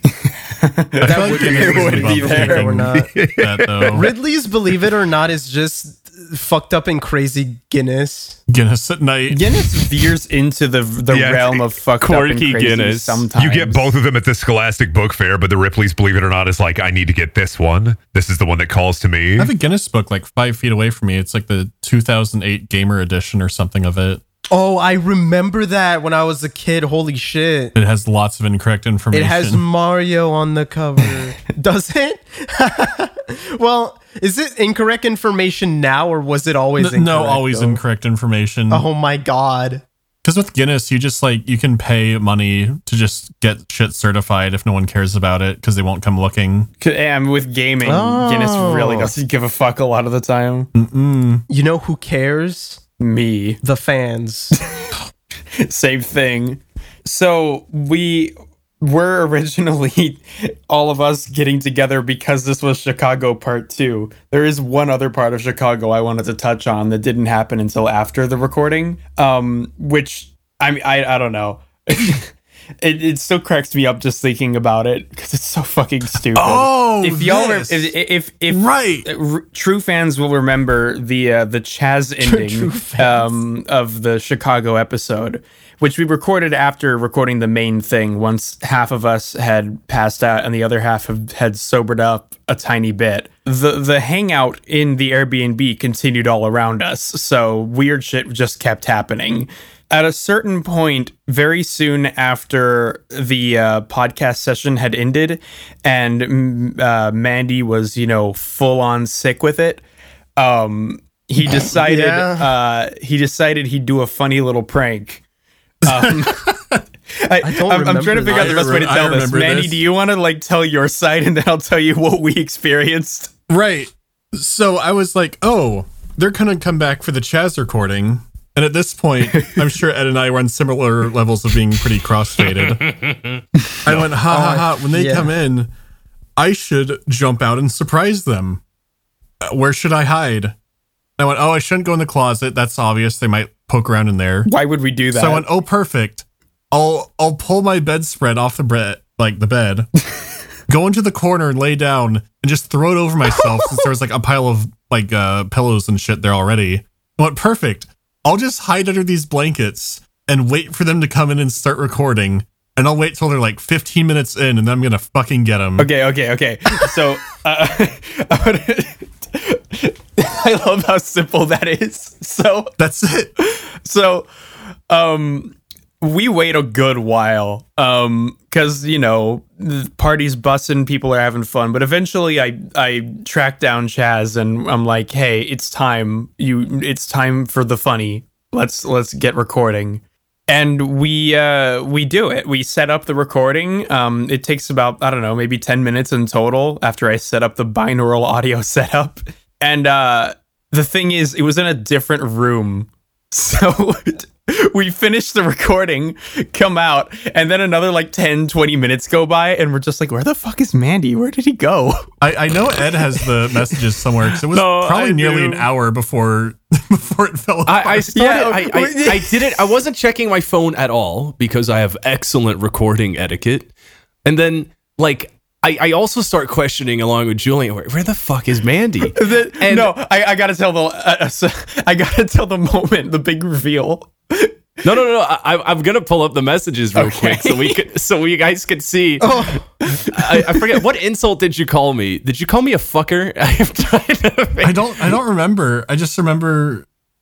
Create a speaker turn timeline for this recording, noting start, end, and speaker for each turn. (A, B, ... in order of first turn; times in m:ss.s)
0:00.2-0:02.9 A
0:01.0-0:04.1 B
0:01.0-0:03.1 C
0:03.9-0:08.4 C
0:08.5-0:09.6 B
0:09.3-0:13.9 A
0:11.1-0:11.5 D
0:12.0-0:13.3 E
0:13.4-0:19.5 D
0:19.4-0:24.2 B
0:24.5-0:27.8 C
0:27.8-0:29.6 B
0:29.1-0:37.8 C
0:36.8-0:38.8 B
0:38.7-0:39.8 C
0:40.2-0:46.7 B
0:46.8-0:50.7 A
0:47.8-0:49.1 C
0:50.8-0:51.4 B
0:51.5-0:52.8 C
0:53.0-0:53.6 A
0:53.6-0:54.6 C
0:55.6-1:49.8 A
1:16.3-1:17.9 B
1:18.5-1:19.1 B
1:22.2-1:23.4 C
1:50.4-1:55.2 A
1:51.6-1:52.5 C
1:55.8-1:56.5 A
1:55.9-1:56.8 B
1:57.2-2:03.3 A
1:57.4-1:58.9 C
1:58.3-1:59.8 B
2:03.5-2:13.0 B
2:12.8-2:13.4 E
2:13.8-2:15.7 B
2:14.2-2:15.3 C
2:16.4-2:18.6 B
2:19.4-2:20.6 B
2:21.2-2:24.5 B
2:24.5-2:25.5 A
2:25.1-2:29.9 B
2:30.7-2:45.9 B
2:45.8-2:52.7 A
2:52.8-2:53.3 B
2:53.4-2:54.3 A
2:54.9-3:32.1 A
3:32.2-3:38.2 B
3:34.5-3:35.7 E
3:37.7-3:43.7 E
3:38.1-3:39.6 A
3:44.2-3:50.0 E
3:49.1-3:54.5 A
3:54.8-4:05.1 E
3:57.0-3:57.8 A
3:59.2-3:59.7 C
4:04.6-4:06.9 B